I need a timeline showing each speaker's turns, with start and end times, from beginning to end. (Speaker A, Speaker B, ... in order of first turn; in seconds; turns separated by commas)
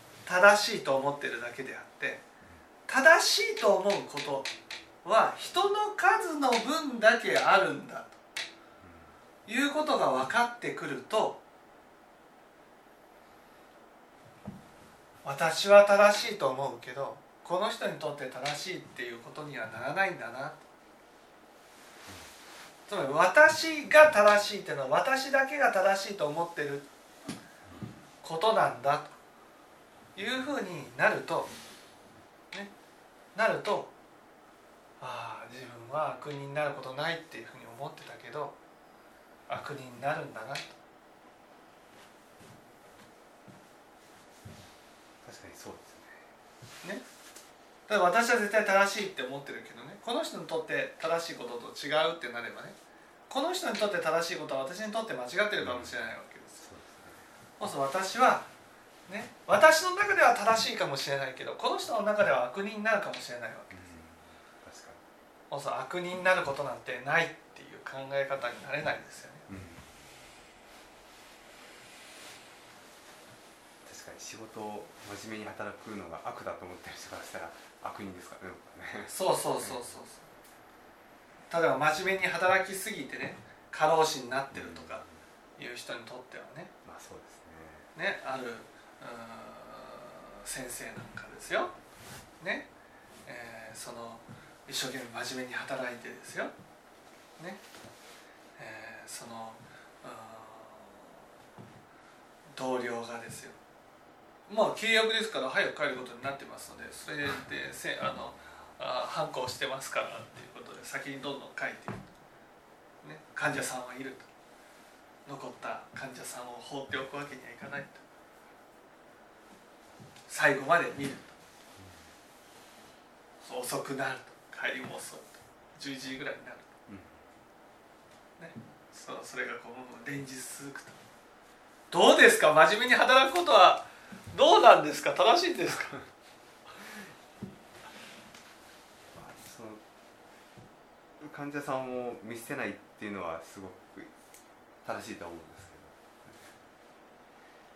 Speaker A: 0.3-2.2, Speaker A: 2.9-4.5, Speaker A: 5.0-8.2, Speaker B: 8.8-9.1, Speaker A: 9.5-11.4, Speaker A: 15.2-20.6, Speaker A: 22.9-26.9, Speaker A: 28.2-29.2, Speaker A: 30.2-31.5, Speaker A: 33.4-33.9, Speaker A: 35.0-38.5, Speaker A: 39.5-40.8, Speaker B: 45.2-46.2, Speaker A: 47.9-52.8, Speaker A: 53.3-56.6, Speaker B: 55.6-55.9, Speaker B: 56.6-57.2, Speaker A: 57.6-58.5, Speaker A: 59.1-63.8, Speaker B: 63.7-65.0, Speaker A: 65.5-69.5, Speaker B: 69.5-69.8, Speaker B: 73.8-79.9, Speaker A: 79.1-80.3, Speaker A: 81.5-85.0, Speaker B: 84.5-85.2, Speaker A: 85.6-86.7, Speaker B: 86.8-87.9, Speaker A: 88.0-91.7, Speaker A: 92.4-92.7, Speaker A: 93.3-96.5, Speaker A: 98.6-101.1, Speaker A: 102.5-103.6, Speaker A: 104.5-112.1, Speaker A: 113.0-114.3, Speaker A: 115.3-118.0, Speaker A: 120.3-121.4, Speaker B: 121.8-122.1, Speaker A: 123.4-126.7, Speaker B: 126.9-127.2, Speaker A: 128.4-131.0, Speaker A: 131.9-136.0, Speaker B: 139.1-139.8, Speaker B: 141.2-144.1, Speaker B: 144.8-146.5